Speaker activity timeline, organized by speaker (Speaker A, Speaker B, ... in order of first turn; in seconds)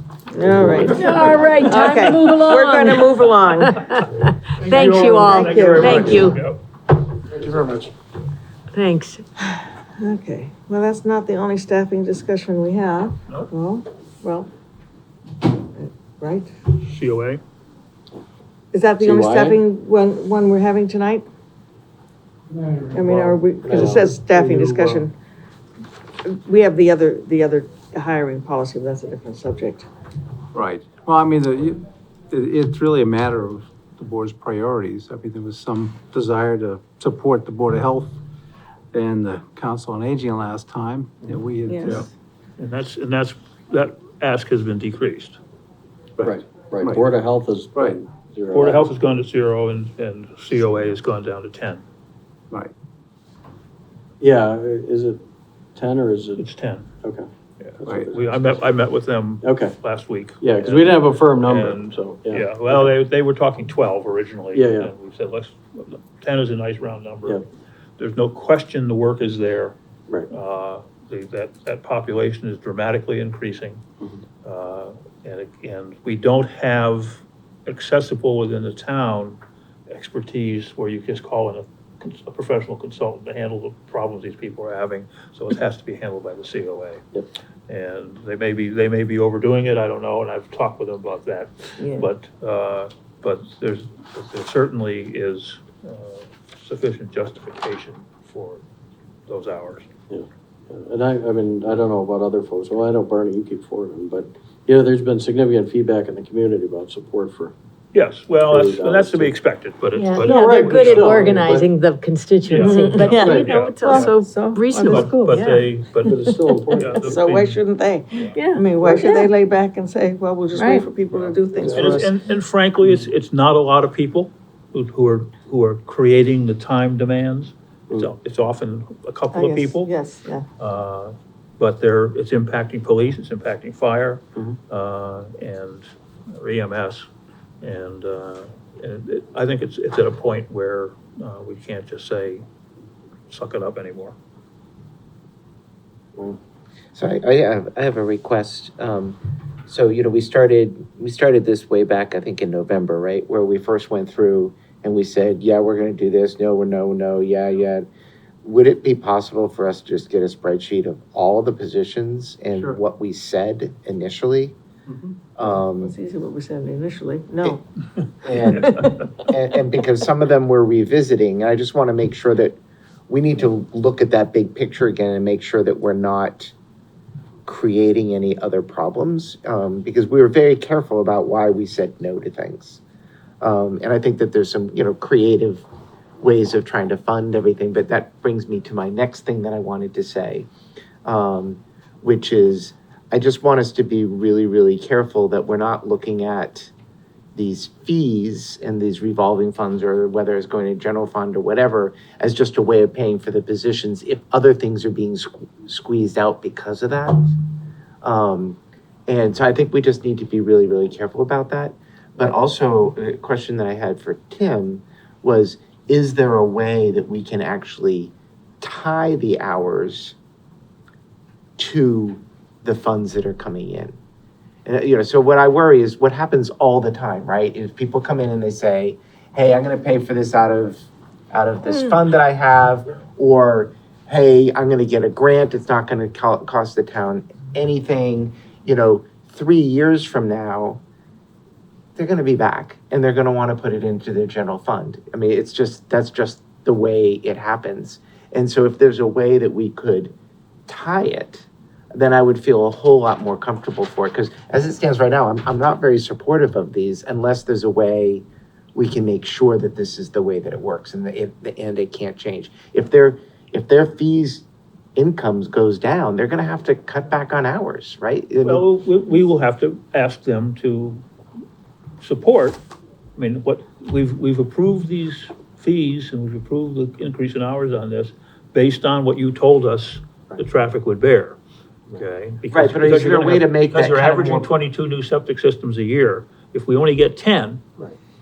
Speaker A: 0.3-3.8, 4.7-6.3, 10.0-14.5, 15.8-16.5, 18.7-21.2, 22.9-25.1, 26.2-29.9, 41.7-42.1, 91.8-92.1, 112.5-115.1, 116.8-122.1, 129.3-130.4, 165.8-167.6, 168.5-168.9
Speaker B: 0.4-1.5, 19.0-19.6, 23.0-24.9, 46.2-49.0, 54.2-55.2, 55.8-56.5, 57.0-57.3, 57.8-58.7, 59.4-59.8, 60.4-62.9, 64.5-64.9, 100.1-107.5, 108.5-109.3, 110.2-111.7, 113.1-113.5, 116.0-117.2, 121.2-122.0
Speaker C: 1.0-4.1, 4.7-6.4, 8.7-9.2, 109.9-115.7, 118.3-119.3, 120.5-120.9
Speaker D: 4.6-6.6, 16.8-17.4, 42.6-45.4, 48.5-51.8, 56.4-56.9, 57.6-67.4, 68.0-69.8, 70.3-73.8, 74.4-79.4, 79.9-87.0, 87.7-98.6, 99.3-99.9, 107.9-111.5, 112.5-114.2, 114.8-116.2, 116.7-117.6, 121.2-129.9, 130.6-137.1, 137.6-142.4, 143.3-144.1, 168.5-168.8, 268.4-271.0, 272.0-272.6, 273.1-281.4, 281.9-287.6
Speaker E: 30.5-38.2, 38.9-42.1, 46.2-47.0
Speaker F: 146.9-157.9, 158.4-164.6, 165.3-165.9, 168.2-172.6, 173.1-176.5, 177.4-182.8, 183.4-185.7, 186.2-190.5, 191.0-196.7, 197.3-207.2, 208.0-220.1, 221.6-223.9, 224.6-240.8, 241.9-250.1, 250.7-264.4, 264.9-268.6, 282.5-284.5